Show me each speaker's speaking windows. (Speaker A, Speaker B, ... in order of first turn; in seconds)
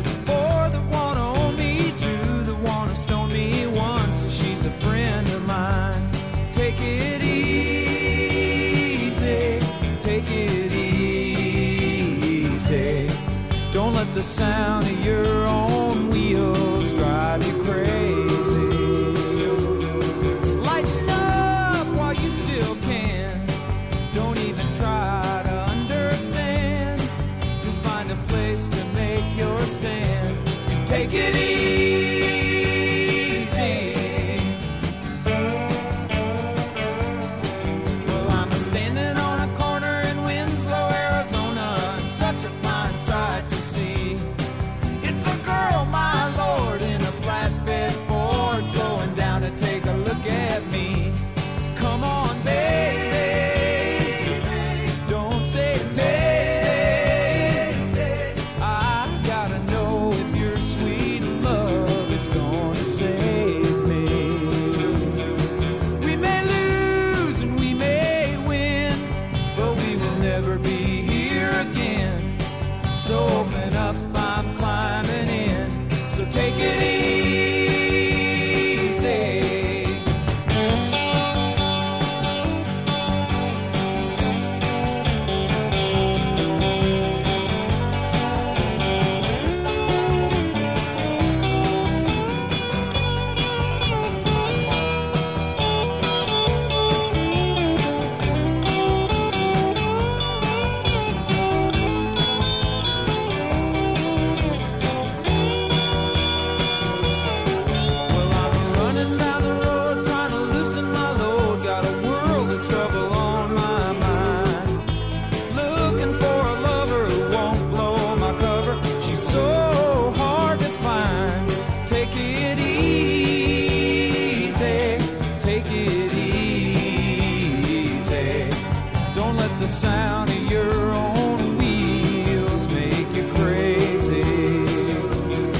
Speaker A: 0.2-23.6, 24.1-34.6, 38.0-44.3, 45.0-65.3, 66.0-72.4, 73.0-80.1, 108.0-114.9, 115.5-135.3